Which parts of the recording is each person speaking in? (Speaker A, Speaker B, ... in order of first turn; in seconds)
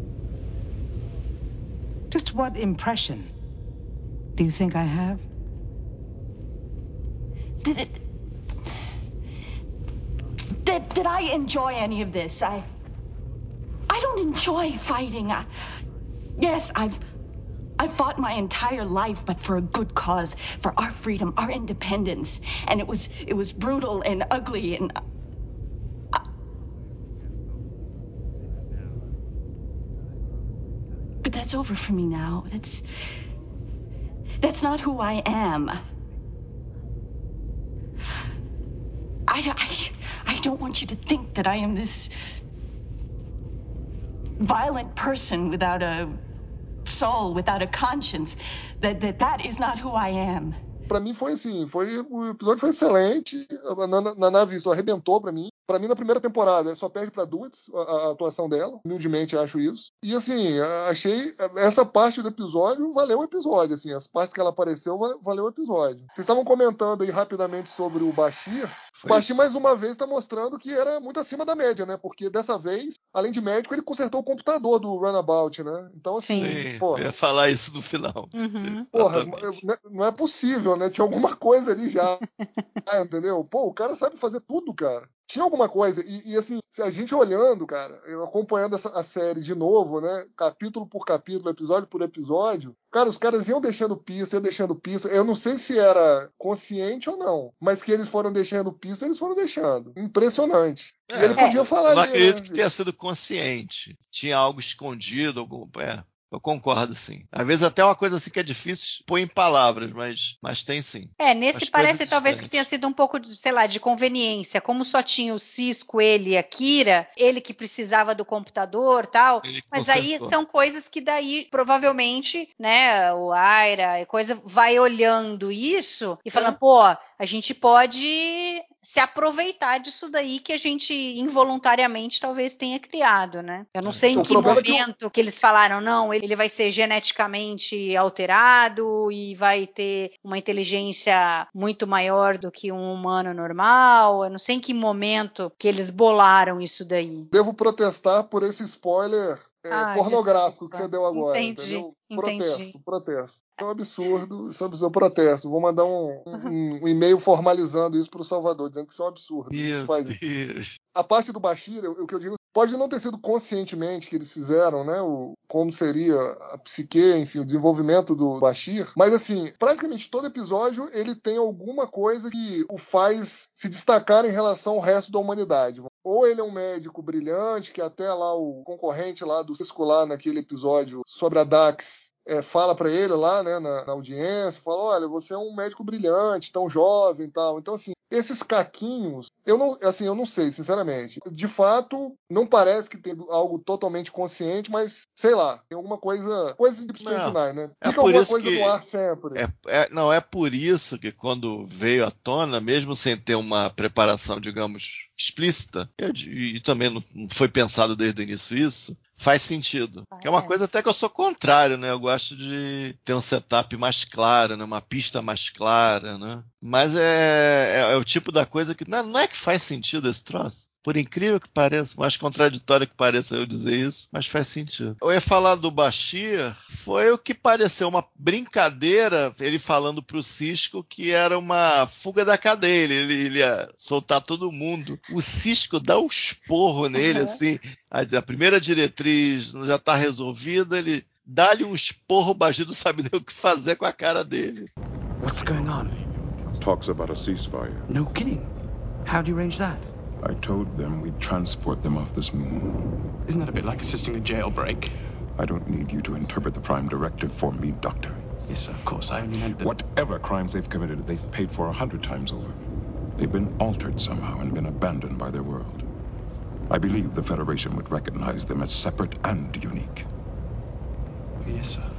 Speaker A: 2.1-3.3, 4.4-5.2
Speaker B: 7.6-8.0, 10.6-12.7, 13.9-15.5, 16.4-17.0, 17.8-25.0, 31.2-32.8, 34.4-35.8, 39.3-42.1, 44.4-46.2, 46.9-50.6
Speaker C: 50.9-77.1, 78.9-82.2, 82.8-102.6, 134.1-134.8, 147.3-160.2, 160.9-199.4
Speaker D: 69.0-69.4, 76.4-79.6, 101.1-112.7, 119.4-120.3, 133.9-134.7, 159.5-160.7, 197.0-198.8, 199.3-244.7
Speaker E: 76.2-76.6, 78.3-78.9, 82.4-82.7, 111.2-147.3, 149.7-152.7, 210.1-210.5, 237.0-237.4
Speaker F: 245.2-246.0, 247.9-248.5, 249.1-249.9, 253.3-254.9, 258.5-259.8, 271.5-271.9
Speaker G: 246.6-247.9, 250.2-252.9, 255.4-258.2, 259.6-262.6, 263.2-265.9, 266.7-270.1